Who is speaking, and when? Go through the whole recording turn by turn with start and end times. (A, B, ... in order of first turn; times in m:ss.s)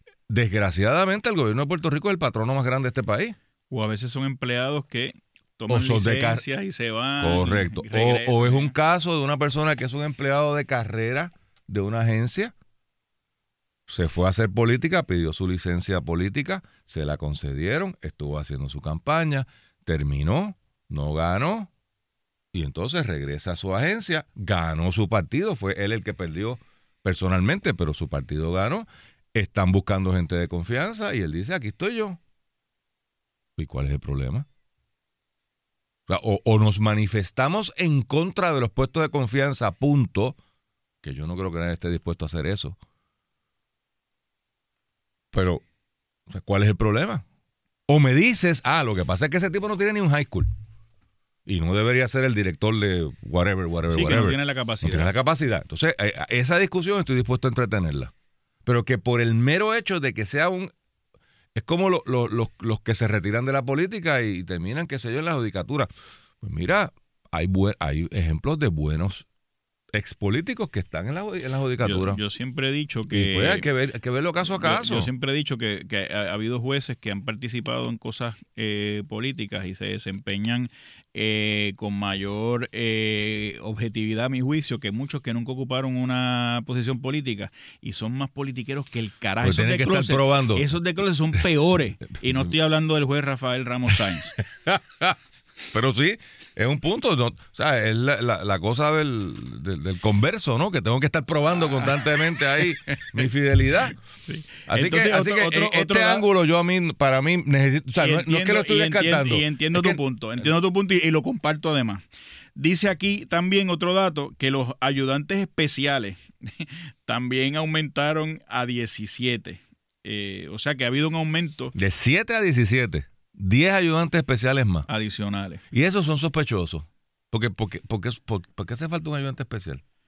0:00.3-0:03.4 A
0:03.7-0:08.7 B
0:05.7-0:06.4 A
0:07.2-0:12.5 A
0:13.9-0:21.7 A
0:22.5-0:32.2 A
0:33.6-0:34.5 A
0:36.1-0:40.4 A
0:41.0-0:42.8 A
0:45.3-0:45.6 A
0:46.3-0:47.2 A
0:47.9-0:50.5 A
0:51.5-0:58.1 A
0:53.9-0:55.1 B
0:58.7-1:00.7 A
1:01.6-1:05.9 A
1:06.4-1:09.3 A
1:09.9-1:12.2 A
1:11.8-1:13.7 B
1:13.1-1:15.1 A
1:14.5-1:34.4 B
1:29.4-1:30.6 A
1:34.4-1:35.2 A
1:35.7-1:44.0 A
1:44.3-1:46.2 B
1:44.7-1:50.5 A
1:48.0-1:52.0 B
1:52.6-2:01.7 B
2:01.8-2:04.9 A
2:04.9-2:05.6 B
2:05.7-2:09.8 A